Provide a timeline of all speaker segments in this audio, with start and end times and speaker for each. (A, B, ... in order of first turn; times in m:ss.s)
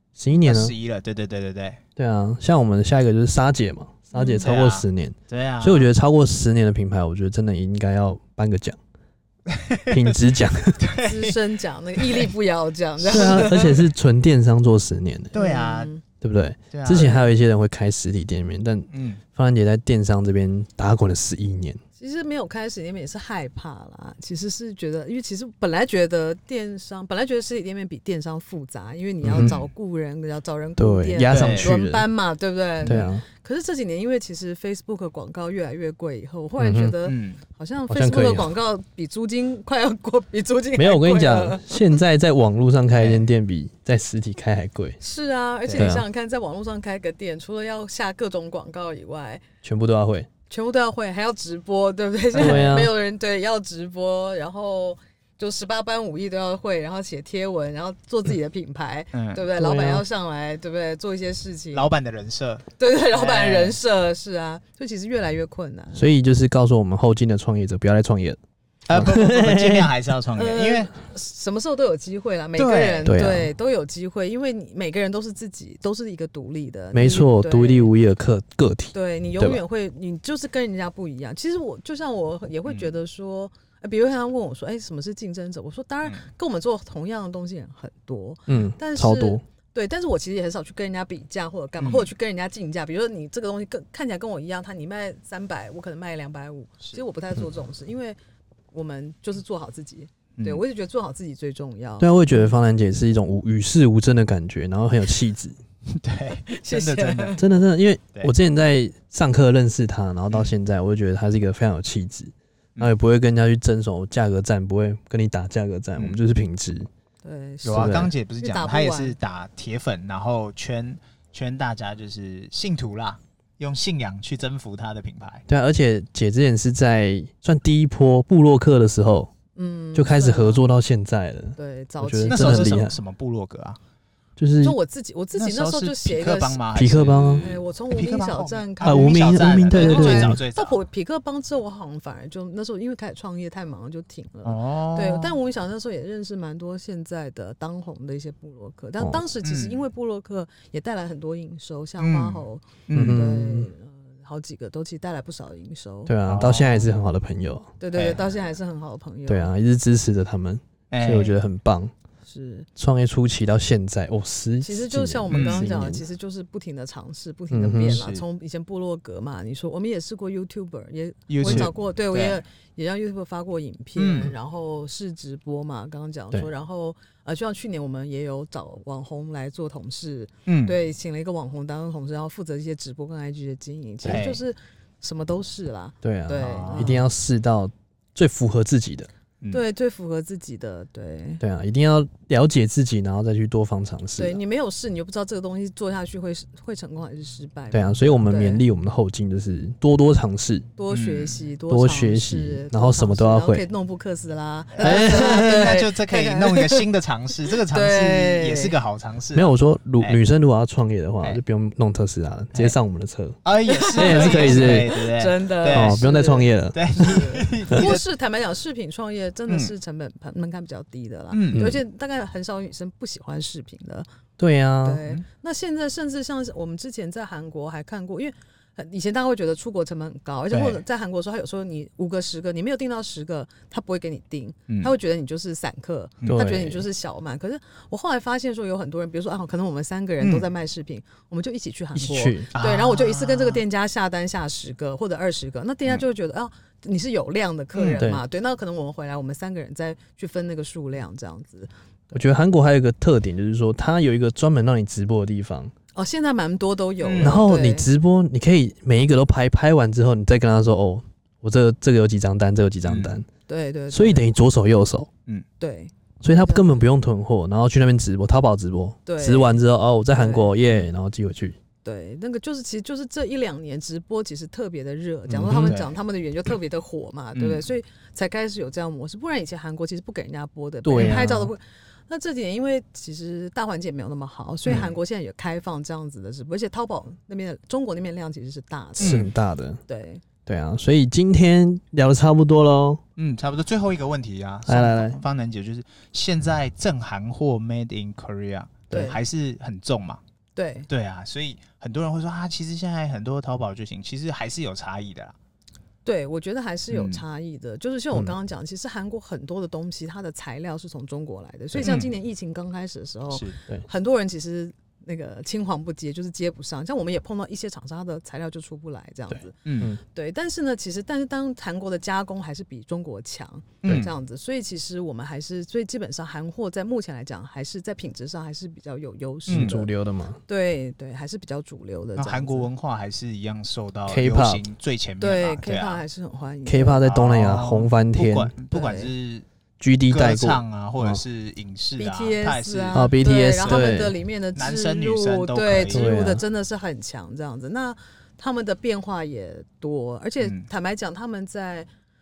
0:00.2-0:00.7 A
0:00.4-0:01.8 B
0:02.0-0:08.8 A
0:04.1-0:04.5 C
0:04.4-0:05.9 B
0:09.5-0:10.0 B
0:09.9-0:10.9 A
0:10.8-0:11.4 B
0:11.0-0:13.9 C
0:12.0-0:12.3 B
0:13.0-0:15.3 A
0:15.3-0:15.9 B
0:15.4-0:16.0 C
0:16.2-0:21.8 A
0:16.7-0:17.2 B
0:16.9-0:17.3 C
0:18.9-0:19.2 B
0:22.0-0:42.0 C
0:29.2-0:29.6 A
0:29.3-0:29.7 B
0:30.8-0:32.1 A
0:31.3-0:31.7 B
0:32.8-0:33.2 A
0:36.6-0:37.0 A
0:37.0-0:37.4 B
0:37.9-0:38.5 A
0:40.8-0:45.0 A
0:43.0-0:43.2 B
0:45.0-0:49.4 C
0:45.7-0:45.9 B
0:45.7-0:46.0 A
0:49.6-0:50.3 A
0:50.5-1:01.9 C
0:52.3-0:52.7 B
0:52.4-0:52.9 A
0:59.1-0:59.5 B
0:59.6-1:00.0 A
1:01.7-1:03.8 B
1:02.8-1:06.1 C
1:06.0-1:08.4 A
1:08.9-1:10.9 B
1:08.9-1:09.9 A
1:10.4-1:17.9 C
1:12.6-1:13.1 B
1:13.1-1:13.5 A
1:16.9-1:19.6 A
1:18.9-1:38.2 C
1:28.5-1:29.4 A
1:31.8-1:32.1 B
1:38.7-1:42.6 C
1:40.4-1:40.6 B
1:42.0-1:45.6 A
1:45.9-1:47.4 B
1:46.5-1:47.5 C
1:47.4-1:56.9 A
1:57.2-1:59.2 C
1:57.6-2:05.4 B
1:57.7-1:58.1 A
2:05.5-2:09.3 A
2:09.6-2:10.7 C
2:09.9-2:13.0 A
2:11.6-2:12.9 C
2:12.3-2:13.8 B
2:14.4-2:14.8 A
2:14.6-2:16.6 C
2:15.3-2:20.8 B
2:16.8-2:17.5 A
2:17.4-2:36.1 C
2:18.8-2:20.4 A
2:24.4-2:25.4 B
2:29.4-2:29.8 B
2:32.0-2:33.2 B
2:32.9-2:33.7 A
2:36.1-2:37.7 A
2:36.2-2:36.9 B
2:37.8-2:39.5 C
2:37.9-2:38.4 B
2:39.3-2:41.9 A
2:40.9-2:41.3 B
2:42.3-2:42.7 C
2:42.8-2:46.0 A
2:44.6-3:07.1 C
2:45.3-2:45.7 B
2:47.5-2:48.0 A
2:47.9-2:48.2 B
2:51.3-2:52.4 B
2:51.4-2:51.7 A
2:54.0-2:54.3 B
3:00.5-3:00.8 B
3:04.0-3:04.4 B
3:06.0-3:09.1 A
3:06.4-3:06.9 B
3:09.5-3:11.4 C
3:11.4-3:14.4 A
3:14.2-3:18.6 C
3:17.7-3:20.7 A
3:20.8-3:26.9 C
3:20.9-3:21.5 B
3:21.7-3:23.7 A
3:24.8-3:30.2 B
3:24.8-3:25.7 A
3:27.5-3:28.7 C
3:29.3-3:33.4 A
3:33.4-3:36.0 B
3:33.7-3:44.1 C
3:33.9-3:34.9 A
3:35.7-3:37.9 A
3:36.7-3:38.0 B
3:39.5-3:39.7 B
3:41.3-3:41.7 B
3:41.6-3:41.8 A
3:44.4-3:45.0 A
3:44.8-4:11.7 C
3:50.5-3:50.8 B
3:56.3-3:56.9 A
4:00.2-4:00.5 B
4:01.9-4:02.5 A
4:02.6-4:03.6 B
4:07.8-4:08.1 B
4:07.9-4:08.2 A
4:12.1-4:15.7 A
4:16.0-4:17.9 C
4:17.0-4:17.4 B
4:17.2-4:23.3 A
4:22.8-4:23.2 B
4:23.5-4:24.3 C
4:23.9-4:25.1 A
4:25.6-4:26.9 C
4:26.2-4:31.6 A
4:29.1-4:29.6 C
4:30.1-4:30.5 C
4:31.8-4:49.3 C
4:35.3-4:35.9 B
4:37.4-4:37.6 B
4:40.8-4:41.5 A
4:40.9-4:41.4 B
4:44.7-4:44.9 B
4:49.0-4:49.8 A
4:49.0-4:49.3 B
4:49.9-4:50.2 C
4:50.5-4:53.0 A
4:53.2-5:00.2 B
4:54.7-4:55.2 A
4:58.9-4:59.2 C
5:00.6-5:00.9 C
5:00.9-5:05.4 B
5:06.0-5:29.9 C
5:06.9-5:07.2 B
5:11.8-5:12.1 B
5:13.3-5:13.6 B
5:19.6-5:19.9 B
5:23.8-5:24.1 B
5:29.5-5:29.8 B
5:29.5-5:30.4 A
5:30.5-5:32.7 C
5:32.2-5:36.0 B
5:34.1-5:34.6 A
5:35.2-5:37.1 C
5:36.7-5:38.5 A
5:37.0-5:39.5 B
5:38.7-5:39.1 C
5:39.8-5:41.2 A
5:40.1-5:43.9 B
5:42.0-5:51.9 C
5:42.9-5:44.2 A
5:44.6-5:46.1 B
5:45.9-5:46.4 A
5:50.4-5:50.7 B